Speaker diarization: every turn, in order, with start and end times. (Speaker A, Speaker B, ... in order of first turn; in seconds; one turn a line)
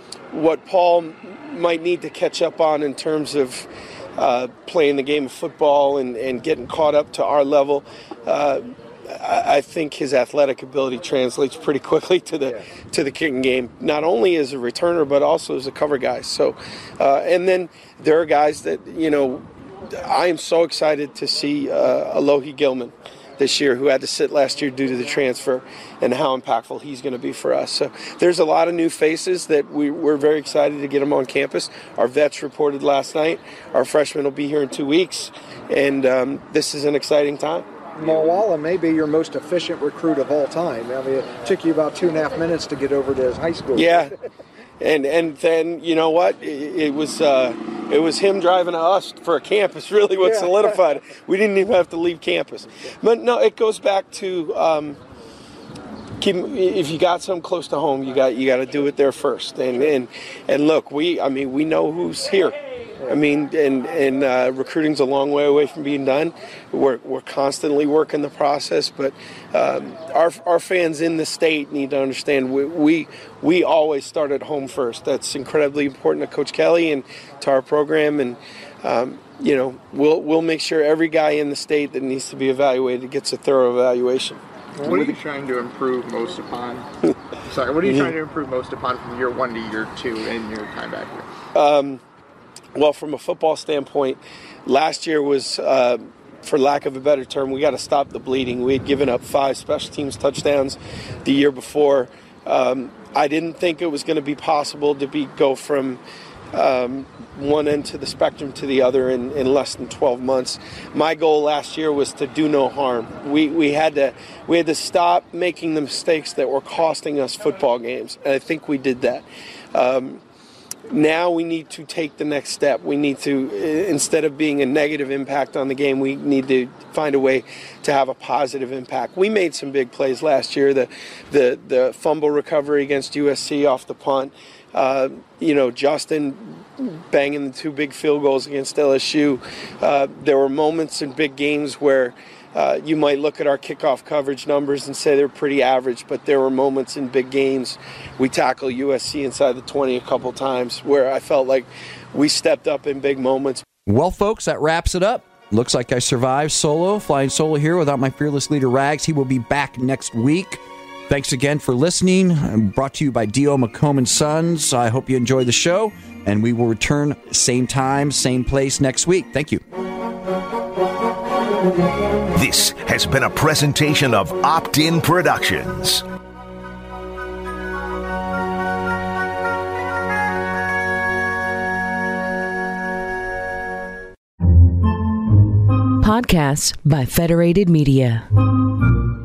Speaker A: 0.3-37.7
Speaker B: 38.0-44.1
Speaker A: 43.7-44.1
Speaker A: 44.8-55.0
Speaker B: 50.2-50.8
Speaker A: 56.2-62.6
Speaker A: 63.1-84.4
Speaker C: 84.8-86.9
Speaker C: 87.5-91.3
Speaker A: 91.5-92.0
Speaker A: 92.8-106.0
Speaker A: 106.5-120.2
Speaker A: 120.9-153.7
Speaker D: 153.9-169.6
Speaker E: 172.3-176.0
Speaker F: 186.0-188.3